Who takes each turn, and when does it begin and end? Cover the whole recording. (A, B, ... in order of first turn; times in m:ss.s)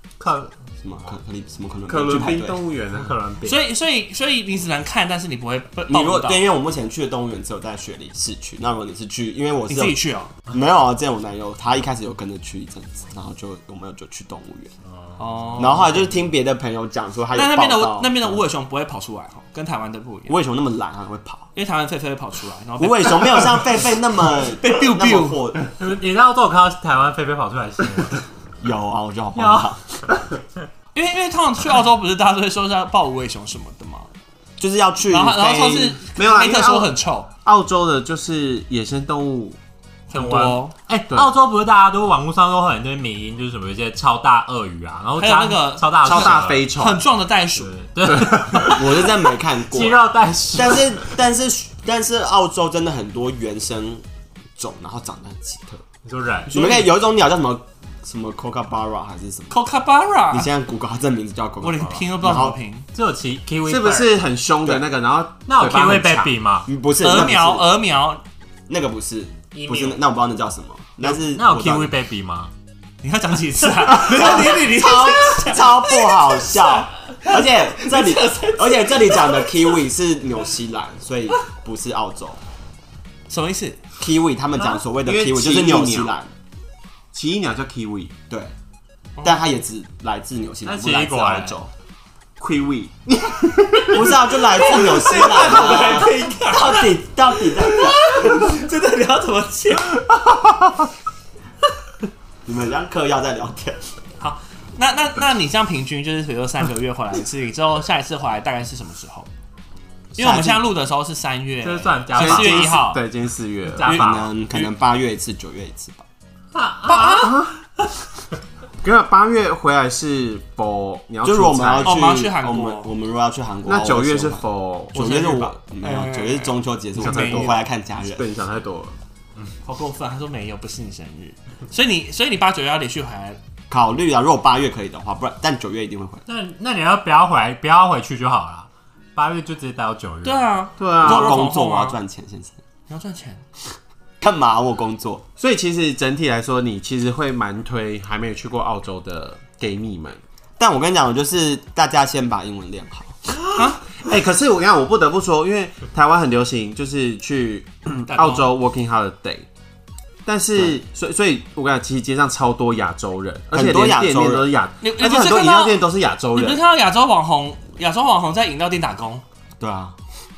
0:00.2-0:00.5 A
0:00.8-0:02.6 B
0:01.9-0:03.1 C
0:02.9-0:03.6 A
0:03.4-0:06.4 D
0:05.9-0:10.0 B
0:09.7-0:10.3 D
0:10.5-0:14.7 B
0:15.0-0:15.5 A
0:15.2-0:16.2 D
0:15.6-0:18.4 B
0:17.3-0:20.4 D
0:20.3-0:21.5 B
0:21.6-0:25.4 D
0:22.8-0:25.7 B
0:25.8-0:28.2 A
0:28.6-0:29.8 B
0:29.4-0:29.7 A
0:30.9-0:34.1 D
0:34.6-0:36.0 B
0:35.1-0:37.3 D
0:36.1-0:36.9 C
0:37.4-0:39.6 C
0:40.1-0:40.7 D
0:40.1-0:46.7 A
0:45.2-0:47.7 D
0:46.0-0:47.1 C
0:47.6-0:51.1 A
0:48.0-0:48.8 C
0:48.6-0:54.0 B
0:54.6-0:55.8 B
0:56.0-0:56.5 A
0:56.5-0:59.6 B
0:59.5-1:00.5 D
1:00.3-1:02.6 B
1:01.6-1:02.9 D
1:02.9-1:04.1 A
1:03.7-1:06.3 C
1:05.4-1:06.7 A
1:06.7-1:07.6 B
1:07.0-1:08.2 D
1:08.7-1:11.9 B
1:09.5-1:10.0 A
1:11.0-1:12.5 A
1:13.0-1:19.6 D
1:13.9-1:22.4 B
1:23.3-1:23.8 D
1:24.0-1:26.3 B
1:25.0-1:26.1 C
1:27.1-1:28.1 C
1:29.2-1:29.4 D
1:29.2-1:31.7 B
1:30.6-1:31.6 A
1:32.4-1:34.2 C
1:33.9-1:38.5 B
1:34.6-1:40.0 D
1:42.4-1:43.8 B
1:44.2-1:49.3 D
1:50.1-1:50.7 B
1:50.2-1:53.0 D
1:51.6-1:52.8 A
1:52.1-1:54.6 C
1:53.7-1:54.3 A
1:53.8-1:56.0 B
1:56.5-1:57.5 A
1:56.9-1:57.3 D
1:57.0-1:57.6 C
1:58.8-2:02.1 C
2:01.2-2:08.2 B
2:01.8-2:02.9 D
2:03.6-2:05.0 C
2:04.9-2:07.6 D
2:07.0-2:09.0 C
2:09.6-2:13.4 D
2:13.7-2:16.2 B
2:16.2-2:20.4 A
2:20.2-2:22.0 D
2:20.8-2:21.4 C
2:21.0-2:22.6 B
2:22.9-2:23.4 D
2:24.2-2:25.2 B
2:25.4-2:30.2 C
2:30.6-2:33.2 B
2:33.4-2:39.5 C
2:33.6-2:33.8 D
2:38.1-2:38.5 D
2:40.2-2:46.6 C
2:43.5-2:44.4 B
2:44.8-2:45.8 D
2:46.3-2:49.2 D
2:49.6-2:49.9 B